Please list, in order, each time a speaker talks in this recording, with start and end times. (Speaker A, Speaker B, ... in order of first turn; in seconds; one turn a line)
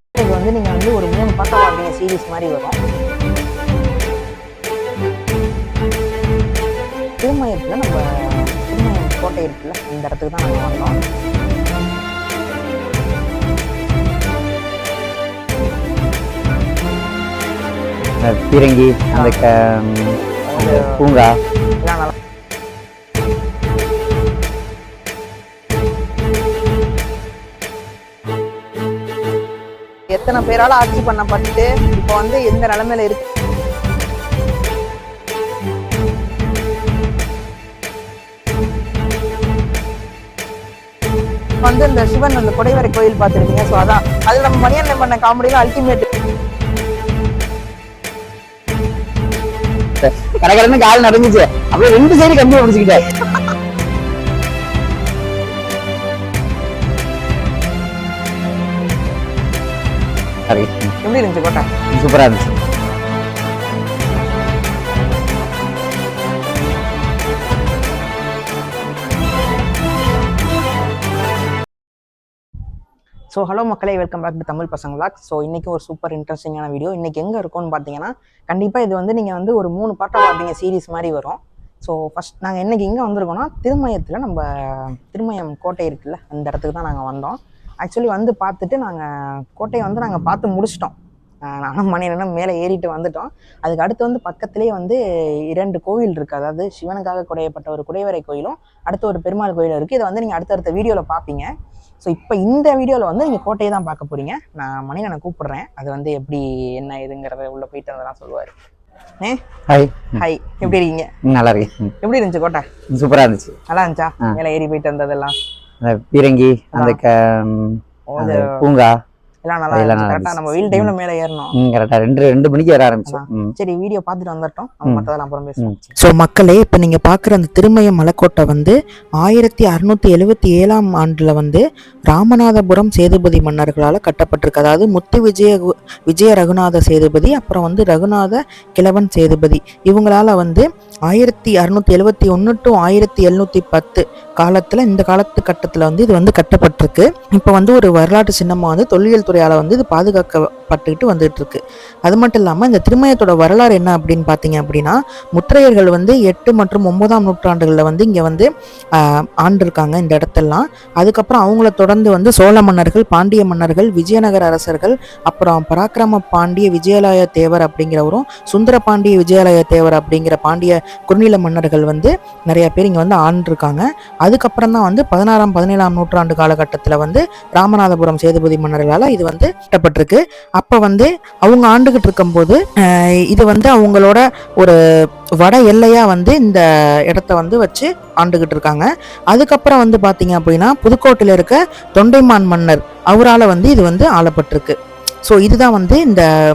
Speaker A: 0.1-2.8
Speaker A: 7.2-11.0
Speaker B: 18.2-21.3
Speaker A: 20.5-21.0
Speaker A: 21.8-22.1
Speaker A: 30.1-33.2
Speaker A: 41.6-46.0
Speaker B: 50.0-53.0
Speaker B: 60.5-60.9
Speaker A: 61.0-61.7
Speaker B: 61.9-62.5
Speaker A: 73.3-90.9
Speaker A: 91.5-95.0
Speaker A: 95.5-101.5
Speaker A: 102.0-108.5
Speaker B: 109.7-110.7
Speaker A: 110.1-111.1
Speaker B: 111.2-111.9
Speaker A: 112.0-112.7
Speaker B: 112.9-113.5
Speaker A: 113.7-115.3
Speaker B: 115.8-118.9
Speaker A: 118.1-118.6
Speaker A: 119.4-121.5
Speaker B: 119.7-120.9
Speaker B: 121.6-123.5
Speaker A: 123.1-125.6
Speaker B: 125.6-125.8
Speaker C: 126.0-184.8
Speaker C: 185.4-194.7
Speaker C: 195.2-196.2